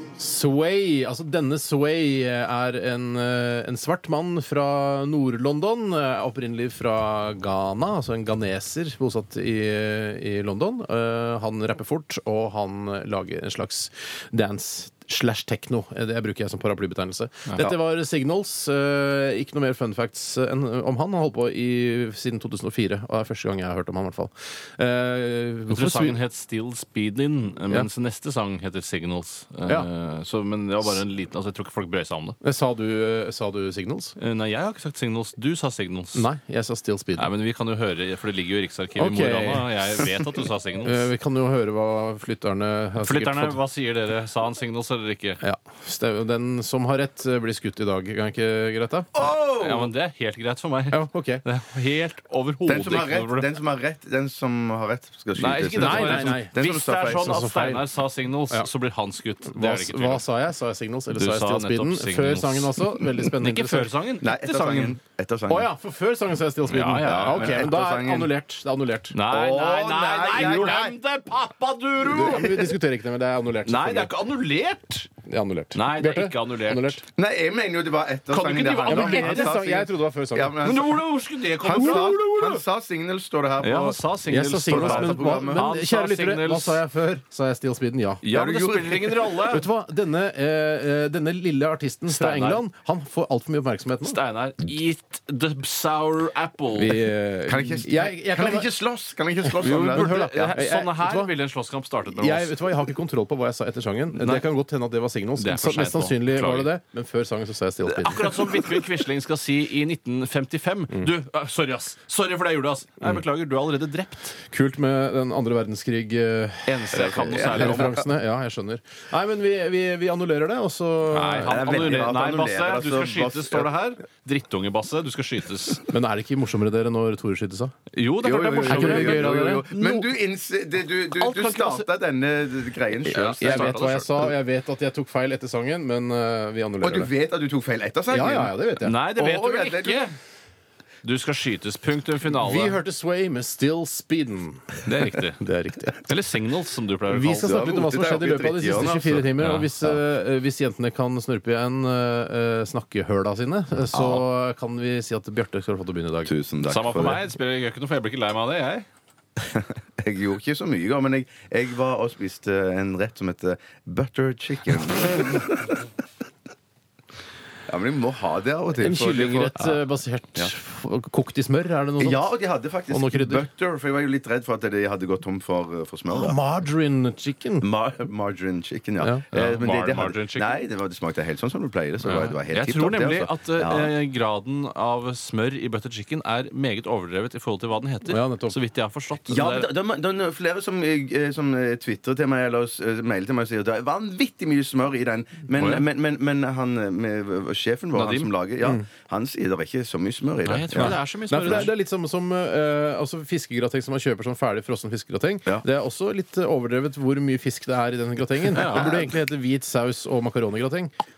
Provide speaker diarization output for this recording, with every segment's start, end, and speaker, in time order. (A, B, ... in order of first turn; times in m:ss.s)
0:00.2-0:26.2 A
0:25.7-0:32.4 B
0:32.4-0:34.1 A
0:34.2-0:36.2 B
0:36.1-0:37.3 A
0:37.2-0:41.1 B
0:39.0-0:39.7 A
0:40.8-0:43.6 A
0:43.0-0:45.4 B
0:45.4-0:49.1 A
0:49.1-0:49.9 C
0:49.5-0:53.5 B
0:50.9-0:51.4 A
0:52.6-0:57.4 C
0:55.4-1:00.2 B
0:55.8-0:57.8 A
0:59.4-1:03.9 A
1:01.1-1:05.0 B
1:04.2-1:05.7 C
1:05.5-1:09.2 A
1:06.7-1:07.7 B
1:06.9-1:08.3 C
1:09.1-1:12.8 B
1:09.3-1:11.0 C
1:12.0-1:14.1 A
1:13.6-1:15.1 B
1:15.2-1:17.0 A
1:15.7-1:17.0 B
1:17.1-1:25.7 C
1:18.3-1:19.6 B
1:18.8-1:20.6 A
1:20.6-1:22.6 B
1:21.8-1:22.1 A
1:23.6-1:26.8 B
1:24.3-1:28.2 A
1:28.2-1:29.7 B
1:28.3-1:29.4 C
1:29.5-1:34.2 A
1:32.1-1:32.6 B
1:34.0-1:37.1 B
1:36.7-1:38.7 A
1:37.5-1:40.6 C
1:39.5-1:41.3 A
1:39.6-1:42.6 B
1:42.1-1:48.4 A
1:44.1-1:44.4 B
1:45.4-1:46.7 B
1:47.8-1:54.4 B
1:54.5-2:01.8 A
1:56.6-1:58.0 B
1:56.9-1:58.0 C
2:01.1-2:05.9 B
2:01.4-2:03.7 C
2:05.9-2:07.7 A
2:07.9-2:10.1 B
2:08.2-2:13.9 C
2:08.6-2:09.6 A
2:11.1-2:11.9 B
2:12.9-2:14.3 B
2:13.1-2:17.1 A
2:16.8-2:18.5 C
2:18.1-2:19.0 A
2:18.8-2:20.2 B
2:19.1-2:20.1 C
2:21.0-2:22.8 B
2:22.3-2:26.0 A
2:24.8-2:25.4 B
2:26.0-2:27.6 B
2:27.1-2:36.3 A
2:27.4-2:30.0 C
2:29.4-2:29.7 B
2:33.9-2:34.3 C
2:36.2-2:37.2 C
2:36.7-2:38.8 B
2:39.4-2:45.7 C
2:47.7-2:49.7 C
2:48.8-2:52.3 A
2:52.0-2:56.4 C
2:52.9-2:53.4 A
2:56.1-2:57.7 A
2:57.6-3:03.9 C
2:59.3-3:00.6 B
3:02.0-3:09.7 B
3:08.1-3:08.6 A
3:09.3-3:21.7 C
3:15.6-3:15.8 B
3:17.9-3:18.3 B
3:20.4-3:21.7 B
3:20.8-3:30.9 A
3:28.5-3:29.1 B